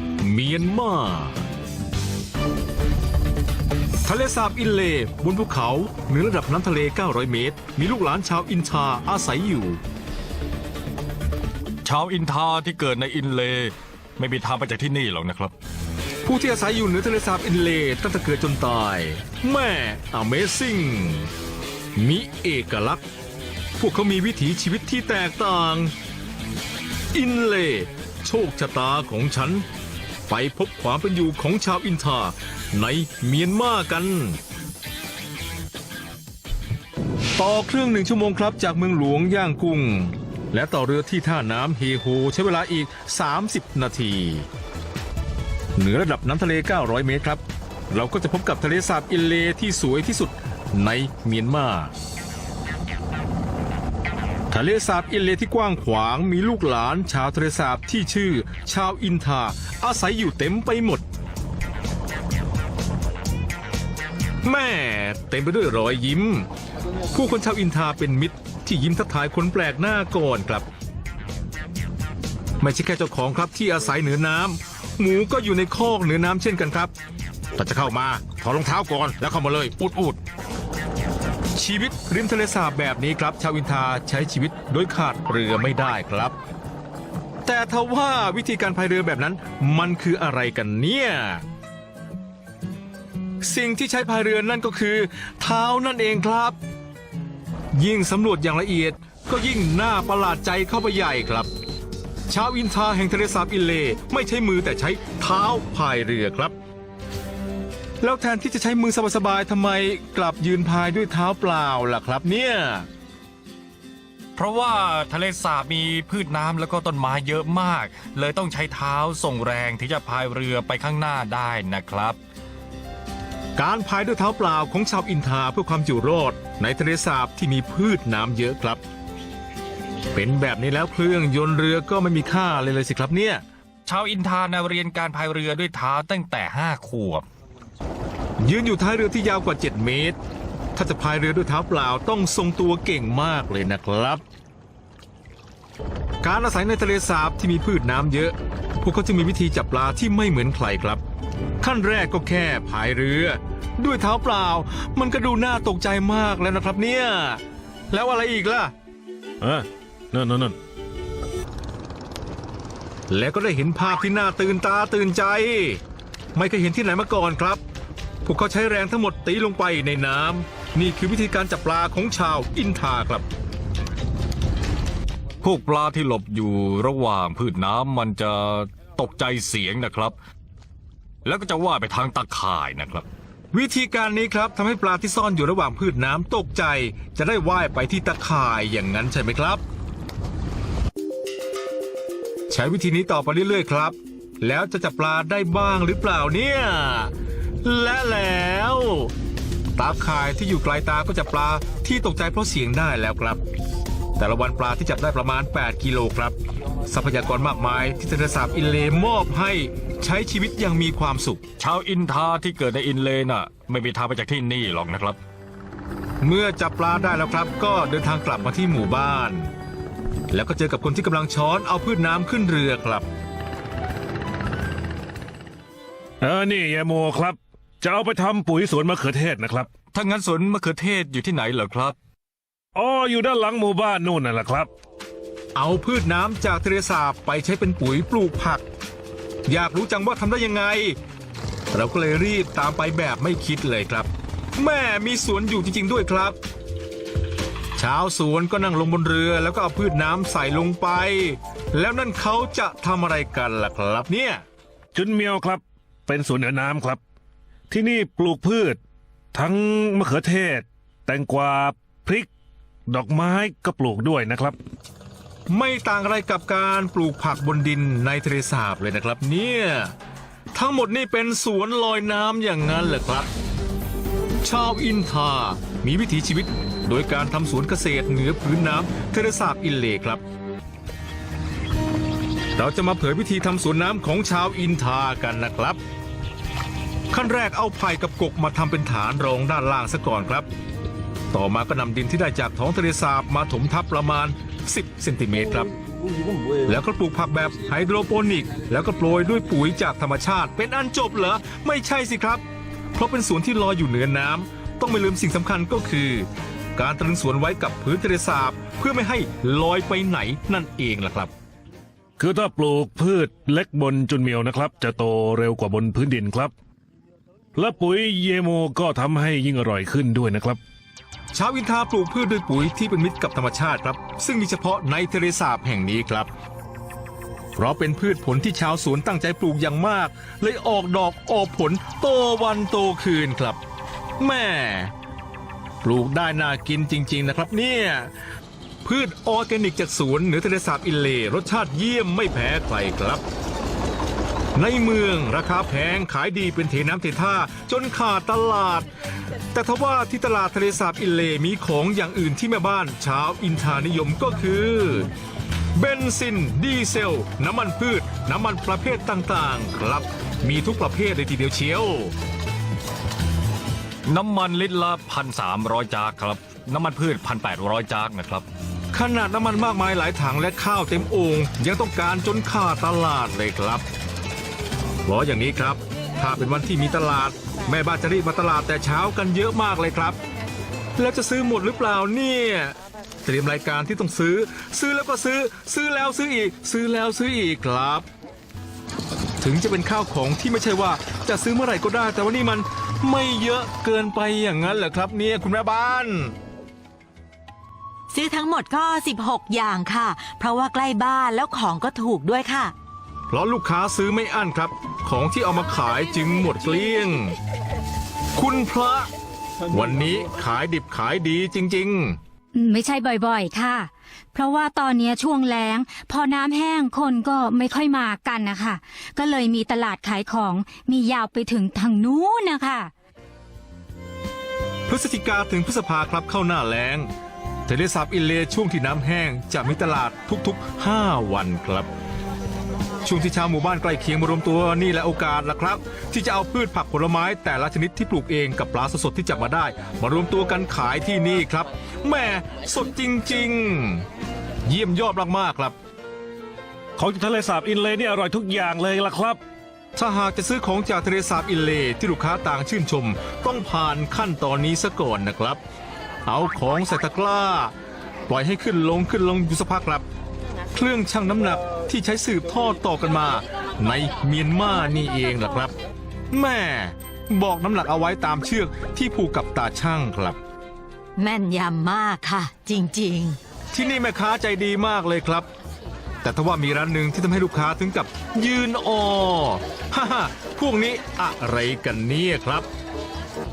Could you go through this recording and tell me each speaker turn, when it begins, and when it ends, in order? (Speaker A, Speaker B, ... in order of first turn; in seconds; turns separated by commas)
Speaker A: 0.2-1.4, Speaker A: 4.0-9.8, Speaker B: 11.8-15.5, Speaker A: 16.2-21.3, Speaker A: 21.9-23.0, Speaker A: 23.8-25.9, Speaker A: 27.1-29.6, Speaker A: 30.3-34.4, Speaker A: 37.4-44.5, Speaker A: 45.8-51.9, Speaker A: 54.5-61.0, Speaker A: 64.4-66.5, Speaker A: 67.1-70.7, Speaker A: 72.6-76.9, Speaker A: 77.5-80.2, Speaker A: 81.5-86.3, Speaker A: 87.4-91.4, Speaker A: 93.4-96.6, Speaker A: 97.7-101.5, Speaker A: 102.3-106.5, Speaker A: 108.0-112.9, Speaker B: 114.3-122.2, Speaker A: 123.6-128.8, Speaker A: 130.1-133.4, Speaker B: 133.9-137.2, Speaker A: 138.4-140.2, Speaker A: 140.7-144.2, Speaker A: 146.2-151.0, Speaker A: 151.6-158.7, Speaker C: 159.4-160.6, Speaker A: 163.1-165.8, Speaker A: 166.3-167.6, Speaker A: 168.2-173.3, Speaker B: 175.4-180.2, Speaker B: 181.2-183.1, Speaker A: 183.5-189.6, Speaker A: 192.5-197.1, Speaker A: 197.6-199.1, Speaker A: 199.8-203.4, Speaker A: 204.2-206.3, Speaker A: 206.9-211.4, Speaker B: 211.6-215.2, Speaker A: 216.2-219.5, Speaker A: 220.3-223.1, Speaker C: 226.2-229.7, Speaker B: 229.9-231.9, Speaker C: 232.7-234.7, Speaker A: 235.5-238.6, Speaker A: 239.5-241.0, Speaker A: 241.7-246.4, Speaker A: 247.8-254.4, Speaker C: 254.9-257.0, Speaker C: 257.7-258.8, Speaker C: 259.3-262.3, Speaker C: 262.9-264.6, Speaker A: 265.5-269.9, Speaker A: 270.5-273.3, Speaker A: 274.4-280.2, Speaker A: 282.6-285.8, Speaker A: 287.1-290.5, Speaker A: 291.3-295.7, Speaker A: 296.6-302.4, Speaker A: 302.9-311.3, Speaker C: 312.2-316.5, Speaker C: 317.5-320.6, Speaker A: 321.3-326.3, Speaker A: 327.6-333.6, Speaker A: 334.2-334.9, Speaker A: 335.8-338.1, Speaker A: 338.8-343.2, Speaker A: 344.5-348.9, Speaker A: 349.5-355.1, Speaker A: 355.7-362.1, Speaker B: 364.1-368.4, Speaker A: 368.9-373.8, Speaker A: 375.1-380.2, Speaker A: 381.0-388.0, Speaker A: 389.4-396.3, Speaker D: 398.1-402.7, Speaker A: 403.3-407.3, Speaker A: 408.3-409.1, Speaker A: 409.7-412.2, Speaker E: 412.5-422.9, Speaker A: 424.9-427.1, Speaker A: 427.7-431.9, Speaker A: 433.0-444.0, Speaker A: 444.6-445.8, Speaker C: 447.0-449.4, Speaker A: 449.9-455.6, Speaker A: 456.2-457.7, Speaker A: 458.3-460.0, Speaker A: 460.7-465.7, Speaker A: 466.3-470.4, Speaker D: 471.2-473.4, Speaker A: 473.7-475.5, Speaker A: 476.2-482.7